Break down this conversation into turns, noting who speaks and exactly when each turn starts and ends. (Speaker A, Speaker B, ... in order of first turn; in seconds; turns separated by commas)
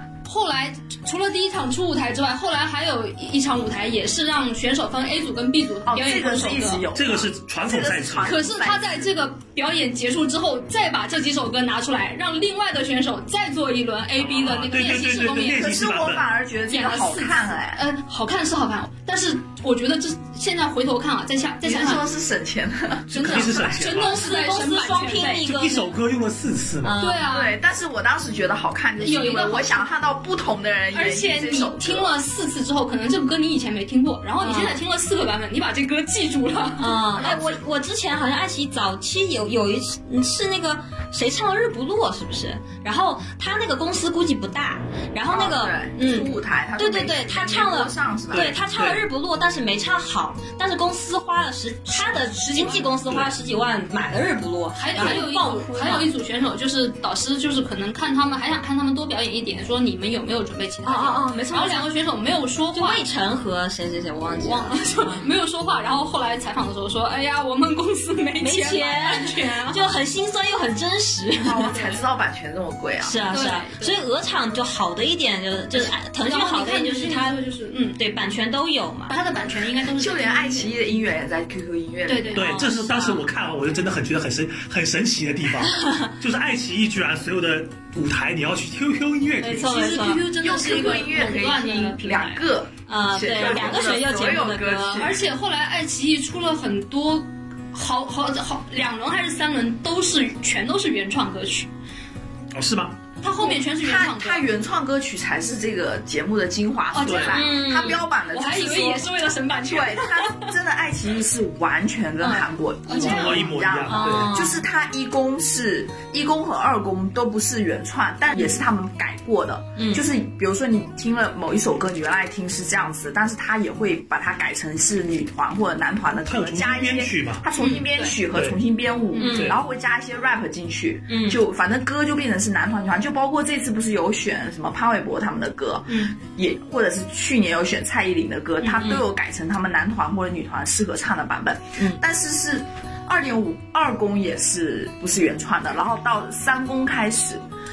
Speaker A: 0.3-6.9, Speaker B: 5.9-9.1, Speaker C: 6.9-8.3, Speaker A: 8.2-15.8, Speaker C: 14.2-16.3, Speaker B: 15.5-17.8, Speaker A: 16.7-22.0, Speaker B: 21.6-23.6, Speaker C: 23.1-24.2, Speaker A: 23.1-25.5, Speaker D: 24.0-26.0, Speaker C: 25.3-26.9, Speaker D: 26.8-27.3, Speaker A: 27.0-27.6, Speaker B: 27.3-32.1, Speaker A: 29.0-29.9, Speaker A: 30.9-37.5, Speaker D: 34.4-34.8, Speaker D: 36.8-56.1, Speaker B: 45.3-48.5, Speaker C: 48.3-49.0, Speaker A: 52.1-52.9, Speaker C: 53.1-53.4, Speaker A: 54.8-63.1, Speaker D: 60.9-61.9, Speaker D: 62.7-65.3, Speaker A: 64.3-69.8, Speaker D: 68.4-71.8, Speaker B: 71.4-73.2, Speaker D: 73.0-77.4, Speaker A: 73.3-74.0, Speaker A: 75.8-78.0, Speaker D: 78.0-79.2, Speaker A: 79.1-80.8, Speaker B: 79.9-82.5, Speaker A: 82.1-83.2, Speaker C: 82.3-89.8, Speaker D: 82.4-83.0, Speaker D: 85.6-86.1, Speaker D: 89.4-90.3, Speaker A: 89.5-92.4, Speaker B: 90.4-95.2, Speaker D: 92.9-95.1, Speaker A: 95.0-101.7, Speaker C: 102.5-103.0, Speaker A: 103.2-104.5, Speaker B: 103.6-147.4, Speaker A: 106.9-110.5, Speaker C: 107.0-107.4, Speaker D: 107.3-108.0, Speaker A: 112.2-113.5, Speaker C: 113.0-114.3, Speaker D: 113.9-114.6, Speaker D: 119.8-120.0, Speaker C: 126.3-127.4, Speaker D: 127.6-127.8, Speaker A: 127.6-128.2, Speaker C: 128.3-128.6, Speaker D: 129.2-129.6, Speaker D: 131.1-131.4, Speaker A: 135.9-136.2, Speaker A: 138.7-138.9, Speaker D: 138.8-139.0